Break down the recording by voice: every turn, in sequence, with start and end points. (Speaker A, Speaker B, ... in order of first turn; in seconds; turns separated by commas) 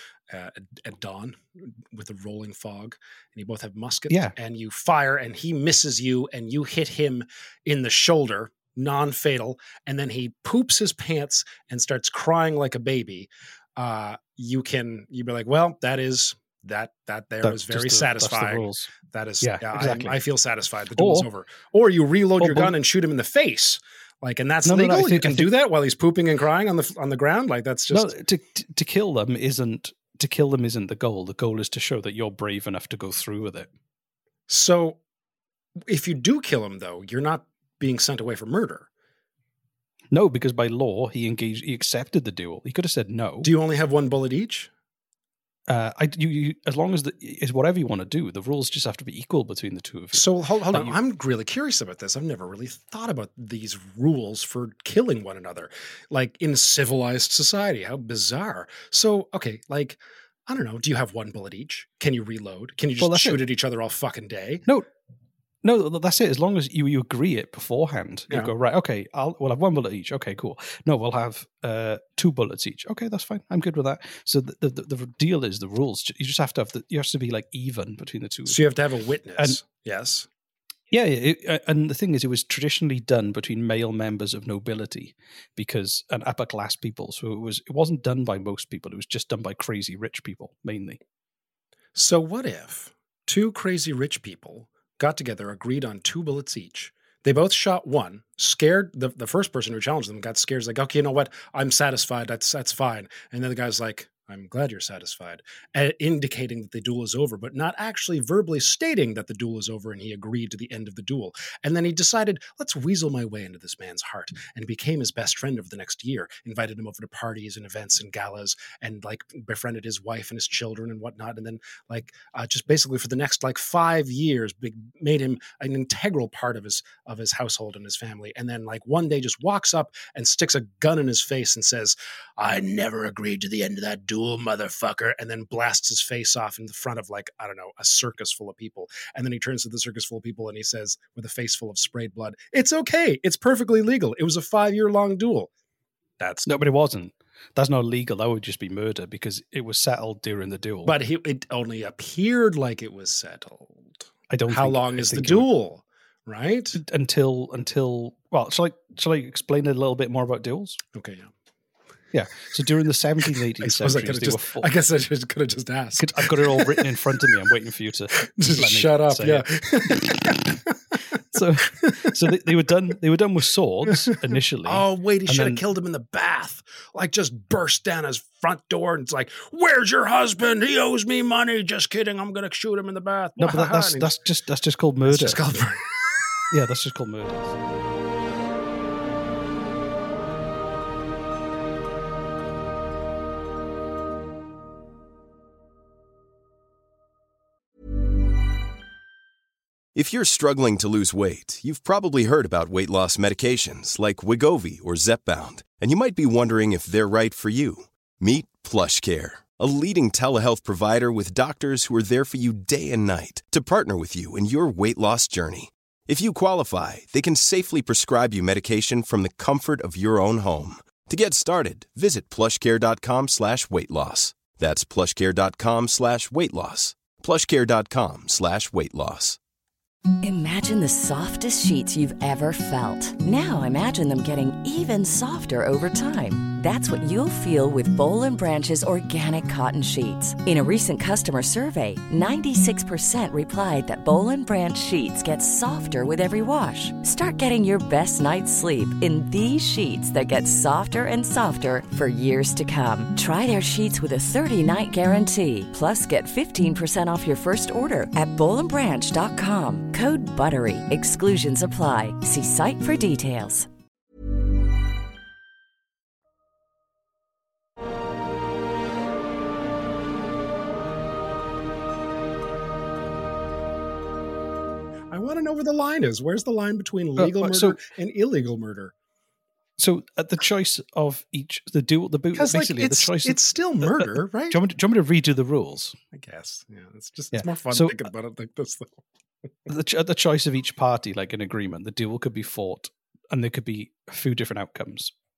Speaker A: 0.3-28.1, Speaker B: 17.4-18.9, Speaker B: 19.4-20.2, Speaker B: 21.0-21.3, Speaker B: 22.4-22.7, Speaker B: 24.6-25.5, Speaker B: 27.9-33.7, Speaker A: 34.5-35.0, Speaker A: 35.9-38.9, Speaker B: 40.1-43.5, Speaker A: 43.4-44.7, Speaker B: 45.7-51.0, Speaker A: 50.1-64.6, Speaker B: 63.0-63.4, Speaker B: 65.6-78.6, Speaker A: 78.5-80.3, Speaker B: 80.9-91.0, Speaker A: 92.0-145.5, Speaker A: 146.2-146.6, Speaker B: 146.4-150.9, Speaker A: 150.8-156.8, Speaker B: 154.3-155.5, Speaker B: 156.7-160.8, Speaker A: 160.9-161.3, Speaker B: 162.1-164.7, Speaker A: 163.6-166.7, Speaker B: 166.0-169.4, Speaker A: 168.4-170.5, Speaker B: 170.1-170.4, Speaker B: 171.3-175.6, Speaker A: 174.7-184.1, Speaker B: 183.4-185.4, Speaker A: 185.1-185.9, Speaker B: 186.5-187.6, Speaker C: 199.9-229.4, Speaker D: 230.2-263.7, Speaker A: 275.1-278.9, Speaker B: 277.2-277.8, Speaker B: 279.8-286.0, Speaker A: 282.4-284.6, Speaker A: 286.1-289.0, Speaker B: 287.3-288.1, Speaker B: 289.7-295.1